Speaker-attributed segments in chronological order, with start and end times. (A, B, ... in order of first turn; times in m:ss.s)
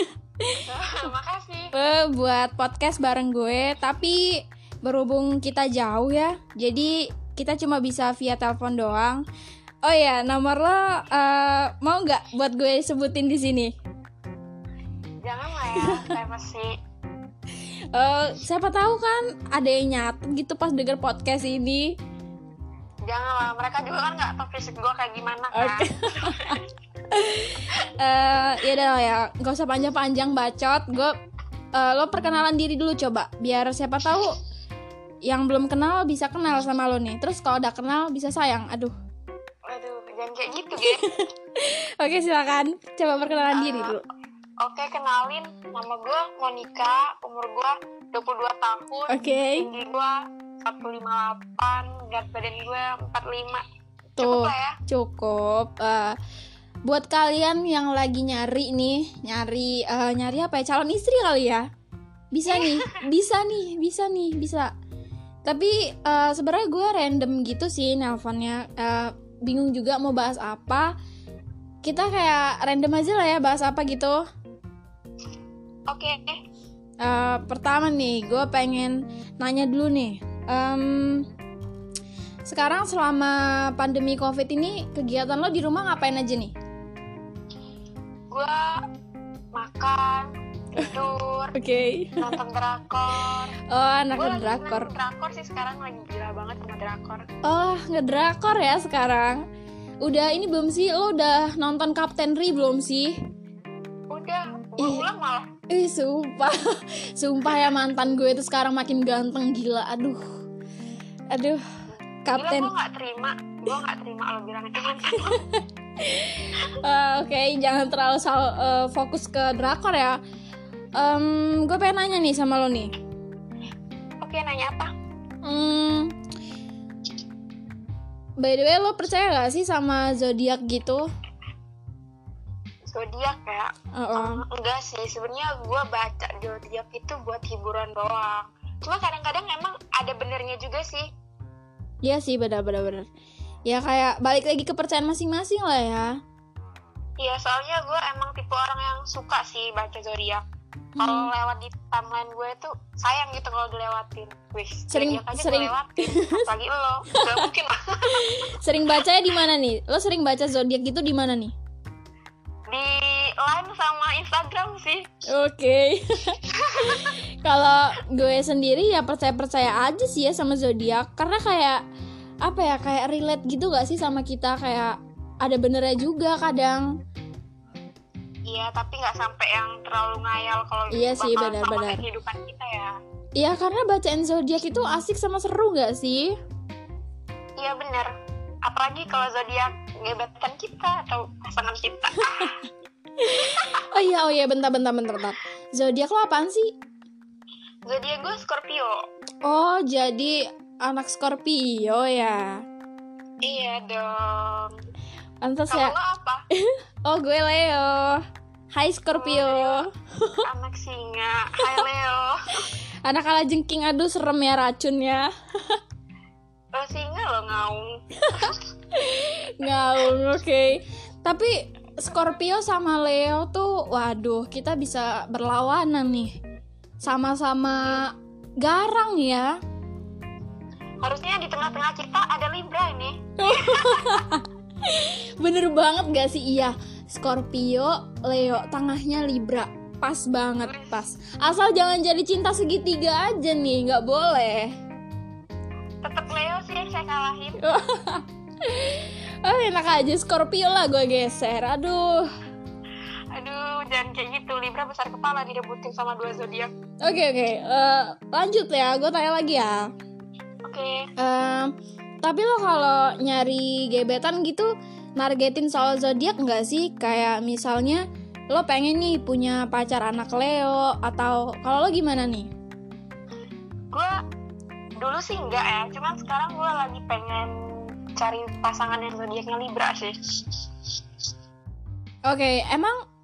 0:00.4-0:01.1 A
0:00.6-0:01.7 B
0:01.7-0:09.2 A
0:09.8-0:13.7 A
0:15.2-0:16.7 B
0:15.7-0:16.1 A
0:17.9-0:22.0 A
0:23.0-0:26.6 B
0:25.5-0:31.2 A
0:31.7-0:34.4 A
0:35.2-0:39.0 A
0:39.7-0:41.1 B
0:40.8-0:44.0 A
0:43.5-0:44.0 B
0:44.6-0:53.6 B
0:49.1-0:49.7 A
0:54.2-0:56.2 A
0:54.2-0:54.8 B
0:56.8-1:01.6 A
1:02.3-1:04.7 A
1:02.5-1:03.0 B
1:05.4-1:10.9 A
1:11.8-1:14.2 A
1:15.9-1:16.4 B
1:17.0-1:21.3 A
1:22.5-1:26.5 A
1:28.3-1:28.8 B
1:29.5-1:31.6 B
1:31.6-1:32.4 A
1:32.2-1:33.6 B
1:33.7-1:34.9 A
1:34.1-1:37.3 B
1:37.4-1:39.4 A
1:40.0-1:43.2 A
1:44.1-1:45.5 B
1:44.8-1:45.1 A
1:45.7-1:50.2 A
1:51.3-1:51.6 A
1:52.2-1:52.7 A
1:52.3-1:55.4 B
1:55.2-2:00.2 A
2:01.0-2:02.9 A
2:04.2-2:04.9 B
2:05.4-2:06.2 A
2:08.4-2:11.1 A
2:12.9-2:21.1 B
2:13.9-2:14.4 A
2:22.0-2:23.1 A
2:23.7-2:26.2 A
2:27.2-2:30.4 B
2:31.0-2:31.3 A
2:31.0-2:38.6 B
2:34.9-2:36.5 A
2:37.1-2:37.5 A
2:38.0-2:41.6 A
2:42.7-2:45.1 B
2:45.3-2:51.8 A
2:46.5-2:47.2 B
2:52.4-2:56.9 A
2:58.5-3:03.0 B
3:00.9-3:02.0 A
3:03.4-3:06.4 A
3:07.6-3:08.1 B
3:08.6-3:12.7 B
3:13.2-3:16.8 A
3:13.4-3:14.0 B
3:17.9-3:19.0 B
3:19.4-3:22.6 A
3:23.4-3:24.8 B
3:25.4-3:25.9 A
3:25.7-3:26.4 B
3:26.6-3:30.4 A
3:29.1-3:29.8 B
3:30.4-3:32.7 B
3:33.1-3:35.8 A
3:36.7-3:38.6 B
3:38.2-3:46.3 A
3:47.0-3:49.6 A
3:51.0-3:54.3 B
3:53.4-4:04.7 A
4:00.6-4:01.0 B
4:06.0-4:07.6 B
4:07.6-4:12.3 A
4:13.3-4:16.7 B
4:17.0-4:19.9 A
4:20.6-4:21.1 B
4:21.2-4:32.5 A
4:35.0-4:40.6 B
4:42.3-4:43.0 A